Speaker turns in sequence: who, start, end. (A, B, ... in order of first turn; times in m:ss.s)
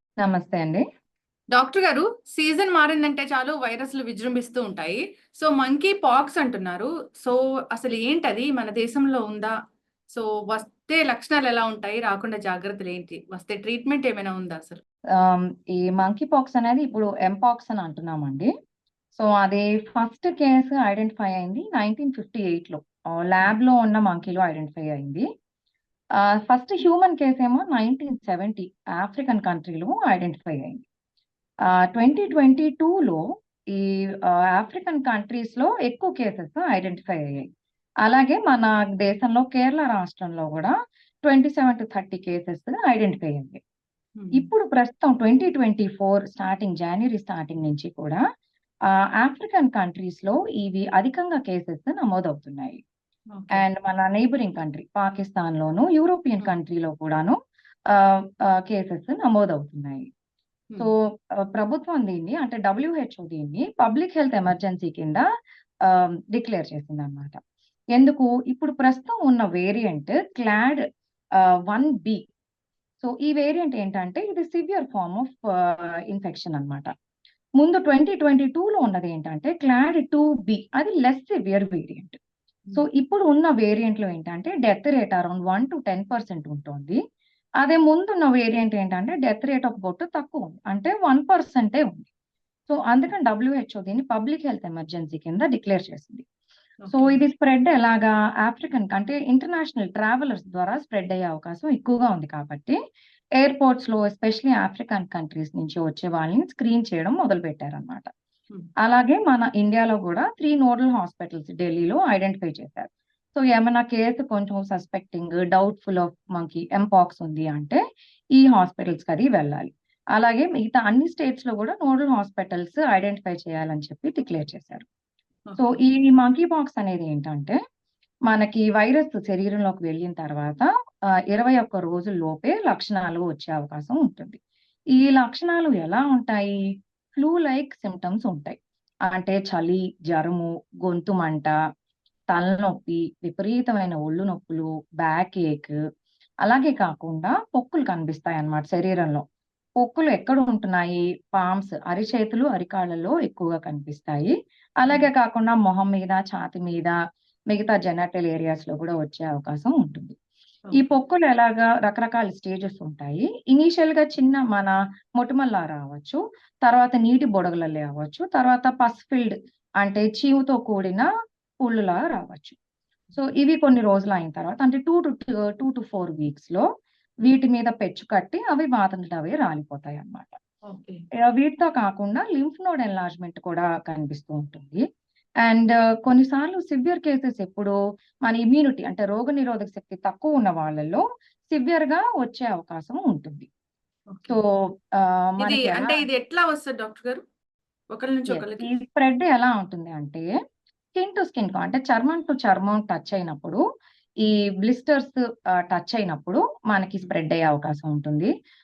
0:00.2-0:00.8 A
0:01.5-0:09.5 B
0:10.1-0:14.8 B
0:15.2-0:18.5 A
0:19.2-0:25.3 A
0:26.2-0:30.8 A
0:31.7-0:33.2 A
0:33.7-0:37.5 A
0:38.0-0:40.7 A
0:41.2-0:43.6 A
0:44.2-0:44.5 B
0:44.3-0:48.2 A
0:49.2-0:52.8 A
0:53.3-0:53.6 B
0:53.5-0:57.4 A
0:57.9-1:00.1 A
1:00.8-1:05.3 A
1:05.8-1:07.4 A
1:08.0-1:10.8 A
1:11.4-1:12.3 A
1:13.0-1:16.9 A
1:17.6-1:22.2 A
1:22.8-1:27.0 A
1:27.6-1:32.1 A
1:32.7-1:36.2 A
1:36.8-1:37.2 B
1:36.9-1:42.8 A
1:43.4-1:48.1 A
1:48.8-1:57.8 A
1:58.3-2:04.9 A
2:05.5-2:05.8 B
2:05.6-2:07.6 A
2:08.3-2:10.7 A
2:11.3-2:14.4 A
2:14.9-2:16.6 A
2:17.2-2:21.5 A
2:22.3-2:25.8 A
2:26.4-2:29.2 A
2:29.8-2:36.9 A
2:37.5-2:40.1 A
2:40.7-2:51.1 A
2:51.6-2:52.6 A
2:53.1-2:53.3 B
2:53.2-2:56.7 A
2:57.2-3:00.4 A
3:00.7-3:01.0 B
3:01.2-3:04.8 A
3:05.4-3:13.5 A
3:14.1-3:14.4 B
3:14.3-3:16.0 A
3:15.4-3:17.2 B
3:17.9-3:18.7 B
3:18.3-3:20.3 A
3:20.9-3:23.6 A
3:24.2-3:28.3 A